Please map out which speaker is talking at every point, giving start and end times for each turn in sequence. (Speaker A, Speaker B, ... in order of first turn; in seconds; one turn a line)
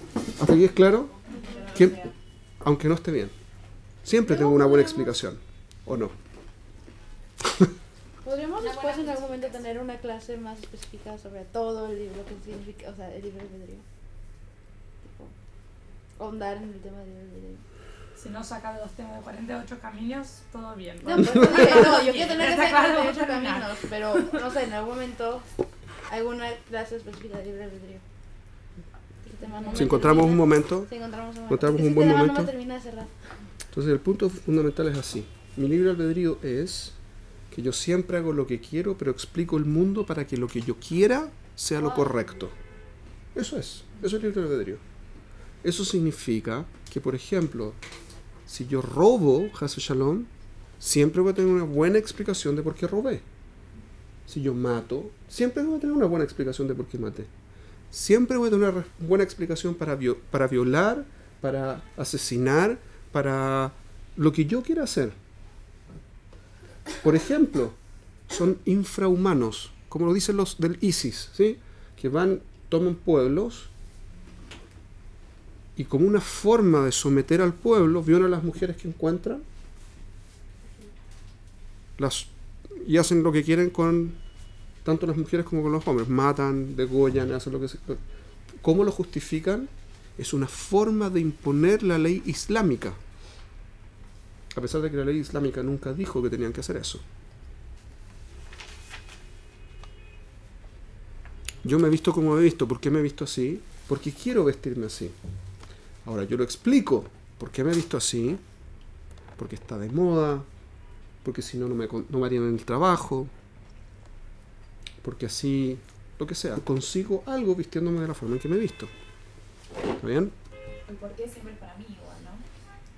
Speaker A: 0.3-1.1
Speaker B: 1.3-2.1
Speaker C: 1.4-1.7
Speaker A: 1.7-3.3
Speaker A: 4.0-6.1
Speaker C: 4.2-5.2
Speaker C: 8.2-13.8
Speaker B: 8.6-9.7
Speaker C: 15.0-15.3
Speaker C: 16.2-17.6
Speaker D: 18.1-24.5
Speaker C: 21.0-25.4
Speaker C: 26.1-28.0
Speaker C: 29.2-33.1
Speaker D: 29.4-30.2
Speaker A: 29.7-30.9
Speaker A: 31.5-32.5
Speaker A: 33.7-37.0
Speaker A: 37.5-42.5
Speaker C: 41.8-42.5
Speaker A: 43.3-44.8
Speaker A: 45.6-47.8
Speaker A: 48.5-53.2
Speaker A: 54.3-57.3
Speaker A: 57.9-65.2
Speaker A: 67.0-73.7
Speaker A: 75.8-79.4
Speaker A: 82.0-84.2
Speaker A: 84.8-88.0
Speaker A: 88.6-93.0
Speaker A: 94.5-97.0
Speaker A: 101.6-105.2
Speaker A: 106.0-108.4
Speaker A: 109.4-110.5
Speaker A: 111.2-113.3
Speaker A: 115.0-118.9
Speaker A: 120.0-120.3
Speaker B: 120.8-122.4